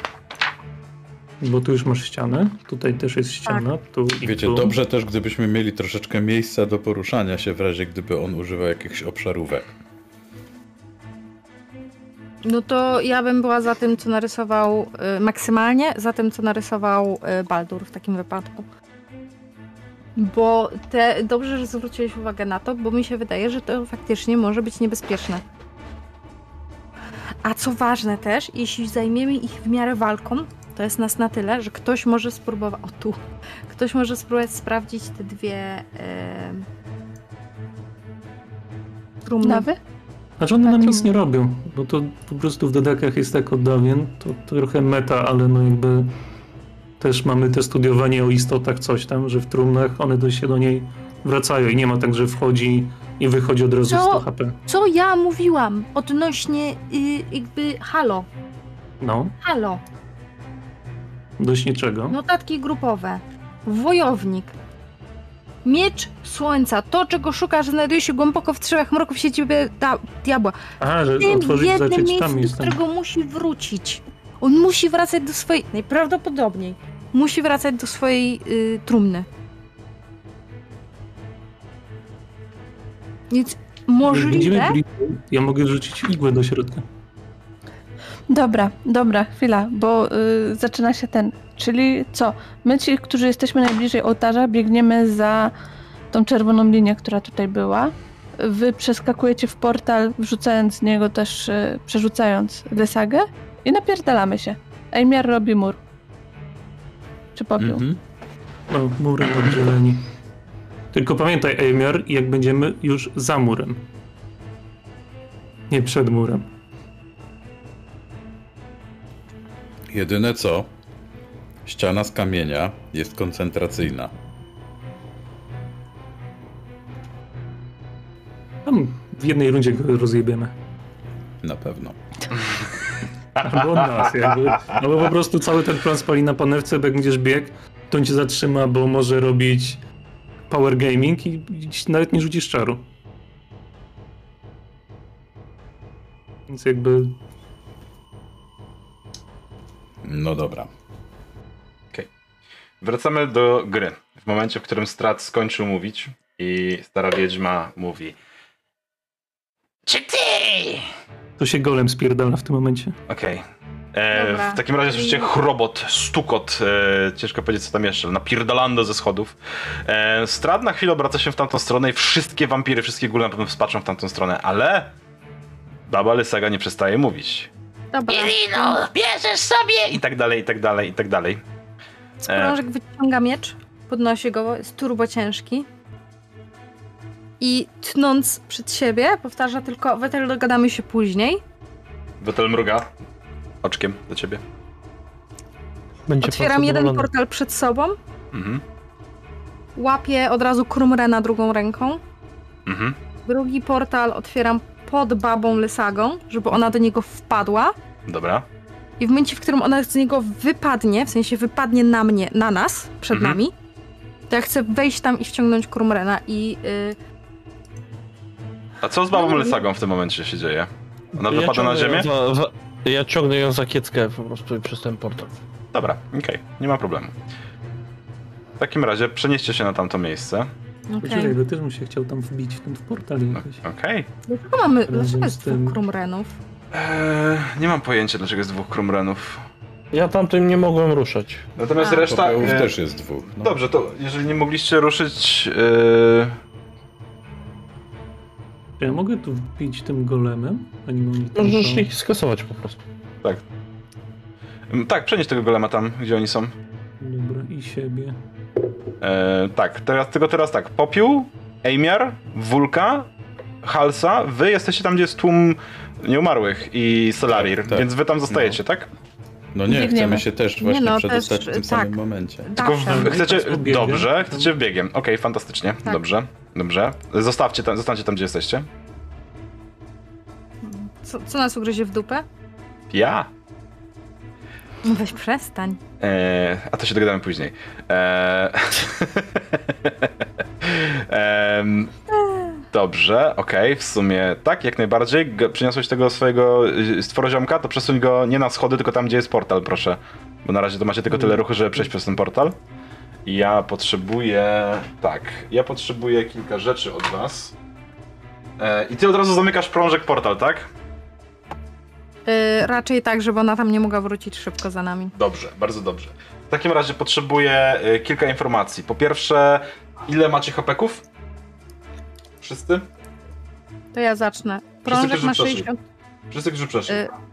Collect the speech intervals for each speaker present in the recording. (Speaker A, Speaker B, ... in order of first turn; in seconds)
Speaker A: 1.4-4.8, 40.4-46.1, 47.0-54.6, 59.0-59.3, 61.4-62.2, 70.8-72.8, 84.0-86.8, 108.7-110.0, 110.9-113.8, 115.7-116.5, 128.6-130.5, 133.4-139.8, 140.5-142.8, 146.5-147.2, 161.4-163.0, 231.0-233.6, 234.8-235.8, 248.8-251.9, 257.0-258.2, 272.9-274.5, 301.1-301.4
Speaker B: 4.2-9.7, 107.6-108.0, 119.9-120.7, 121.6-124.1, 131.4-132.0, 150.0-150.7, 242.1-243.6, 267.3-268.6, 269.5-272.5
Speaker C: 12.4-18.6, 20.1-25.4, 27.4-36.6, 39.2-39.7, 40.6-41.0, 53.8-58.3, 59.4-59.8, 62.1-64.5, 65.6-70.5, 71.2-79.3, 83.3-84.8, 164.1-165.3, 177.9-178.8, 182.2-185.7, 187.4-191.4, 196.2-198.0, 199.8-202.0, 203.2-207.7, 209.0-213.5, 214.3-216.9, 219.1-219.6, 230.9-231.4, 234.3-236.4, 241.8-242.1, 270.6-273.2, 280.6-282.2, 284.8-285.8, 292.1-292.5, 312.2-315.1, 323.9-325.8
Speaker D: 39.4-39.8, 88.3-95.5, 96.1-105.8, 107.3-107.8, 269.7-270.2
Speaker E: 152.8-158.2, 163.1-163.4, 163.9-169.3, 169.8-174.9, 175.9-177.5, 179.9-181.4, 182.3-182.6, 192.2-192.9, 193.6-194.4, 198.3-198.6, 202.7-203.0, 208.1-208.4, 213.1-213.4, 218.8-222.1, 225.7-227.1, 228.6-230.5, 233.3-234.1, 236.7-239.4, 241.6-242.7, 243.4-246.3, 254.7-256.5, 259.0-263.1, 263.6-268.9, 272.6-278.7, 282.9-283.3, 286.0-290.1, 290.6-291.9, 292.7-302.6, 303.2-307.5, 308.6-310.6, 315.1-321.0, 322.4-322.9, 324.9-325.7, 326.3-327.0
Speaker F: 159.9-160.9, 178.1-180.0
Speaker G: 196.1-197.1, 221.2-225.4, 239.9-241.4, 251.3-252.8